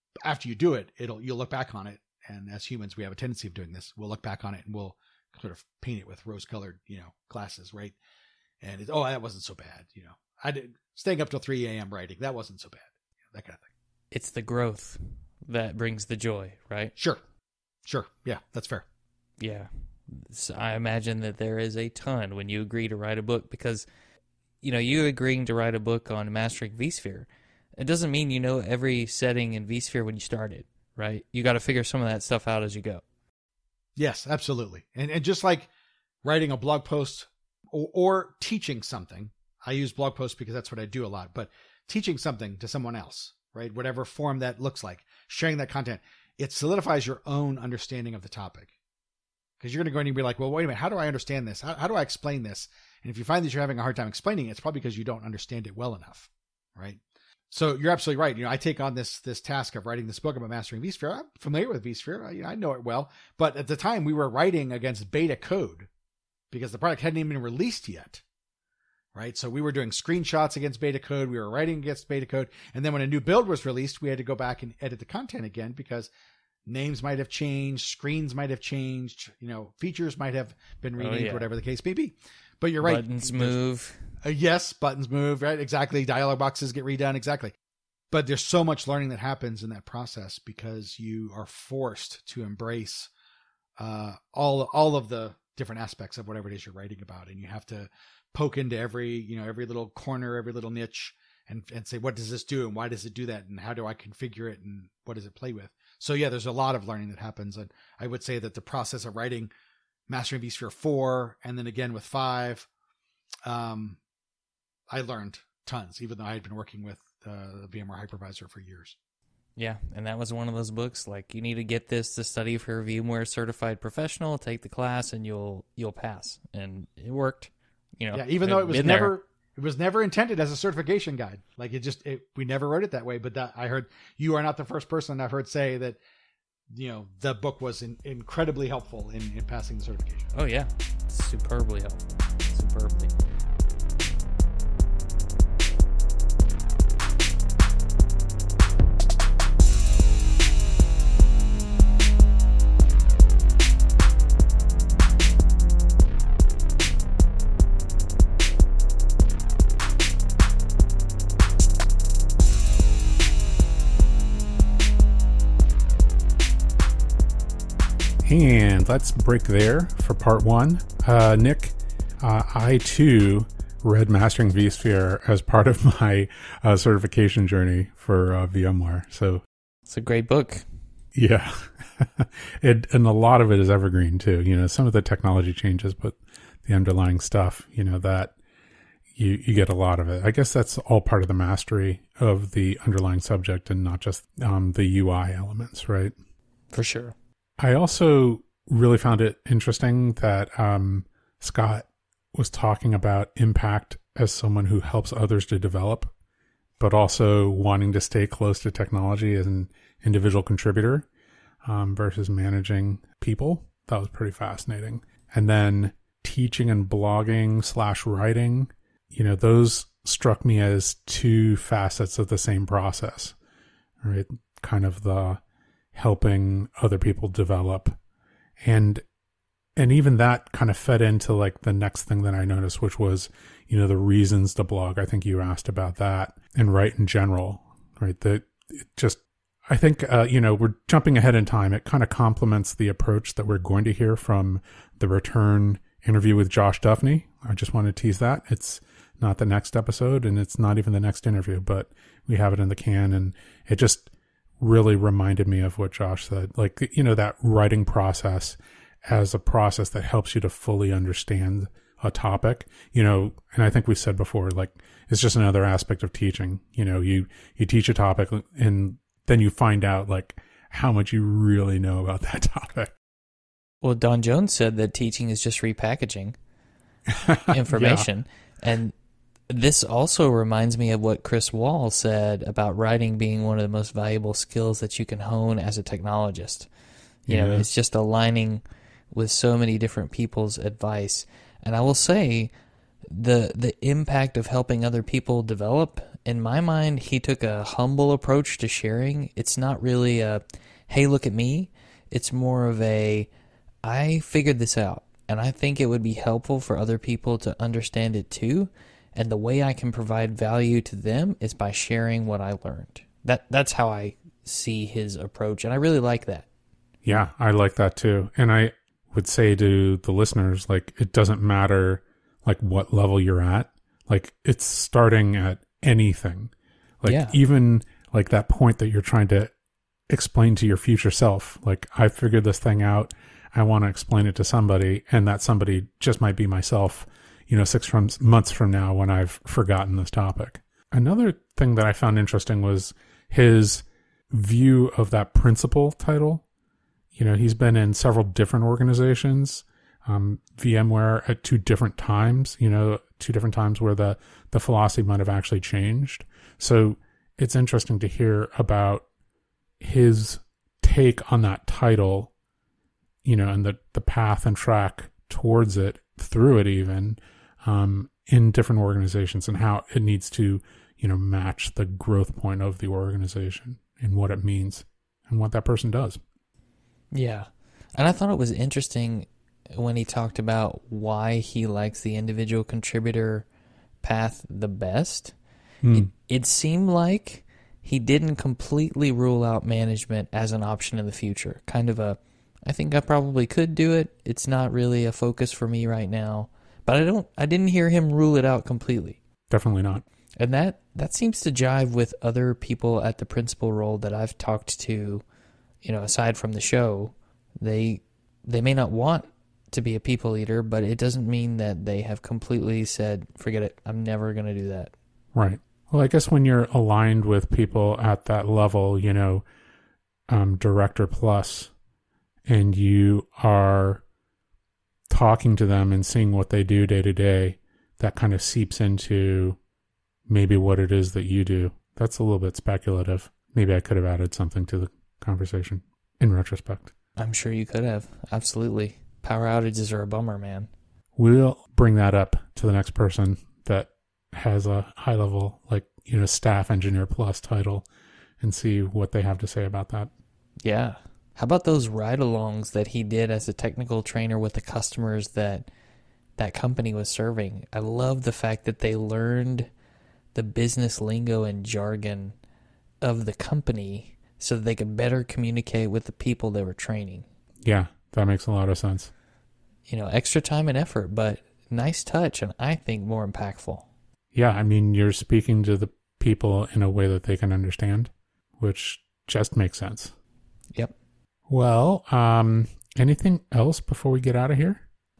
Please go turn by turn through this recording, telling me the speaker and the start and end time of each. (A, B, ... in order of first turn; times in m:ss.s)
0:00.2-0:08.0 A
0:08.6-0:13.7 A
0:14.1-0:16.9 B
0:17.0-0:17.2 A
0:17.8-0:18.8 A
0:19.4-0:23.9 B
0:24.6-0:33.0 B
0:34.0-0:35.7 A
0:36.2-0:48.7 A
0:49.6-1:05.9 A
1:06.5-1:08.2 A
1:09.1-1:16.1 A
1:16.6-1:23.6 A
1:21.0-1:21.5 B
1:22.8-1:24.1 B
1:24.2-1:27.5 A
1:28.1-1:33.1 A
1:33.8-1:49.5 A
1:50.1-1:52.7 A
1:53.4-1:54.0 A
1:54.9-1:59.0 A
1:59.6-2:09.1 B
2:08.1-2:16.0 A
2:16.7-2:20.3 A
2:20.3-2:23.1 B
2:48.2-2:59.4 C
2:59.9-3:00.6 B
3:01.1-3:08.4 C
3:09.1-3:16.1 C
3:16.7-3:17.1 B
3:17.6-3:26.1 C
3:26.8-3:31.1 C
3:31.6-3:43.3 C
3:44.0-3:45.4 C
3:45.9-3:48.0 C
3:48.6-3:49.0 C
3:49.8-4:32.9 C
4:33.8-4:36.4 B
4:37.2-4:38.0 C
4:37.5-4:38.9 B
4:39.5-4:46.7 B
4:47.3-4:47.7 C
4:47.3-4:52.5 B
4:53.1-5:03.3 B
5:03.8-5:16.5 B
5:17.0-5:29.5 C
5:27.0-5:27.4 B
5:30.1-5:46.4 C
5:47.1-5:59.0 C
5:59.8-6:02.3 C
6:03.2-6:16.2 C
6:17.1-6:23.5 B
6:24.0-6:25.3 B
6:25.8-6:26.1 C
6:25.9-6:39.2 B
6:39.5-6:40.0 C
6:40.4-6:45.2 B
6:45.8-6:54.9 B
6:55.3-6:59.4 C
7:00.3-7:01.7 C
7:02.4-7:04.0 C
7:05.1-7:09.6 C
7:10.3-7:16.9 C
7:17.2-7:20.7 B
7:21.2-7:27.9 C
7:28.4-7:30.1 C
7:30.6-7:35.7 B
7:36.4-7:39.7 B
7:40.3-7:42.3 B
7:43.0-7:47.2 B
7:47.6-7:49.1 C
7:49.9-7:53.9 B
7:54.3-8:00.1 C
8:01.5-8:04.8 C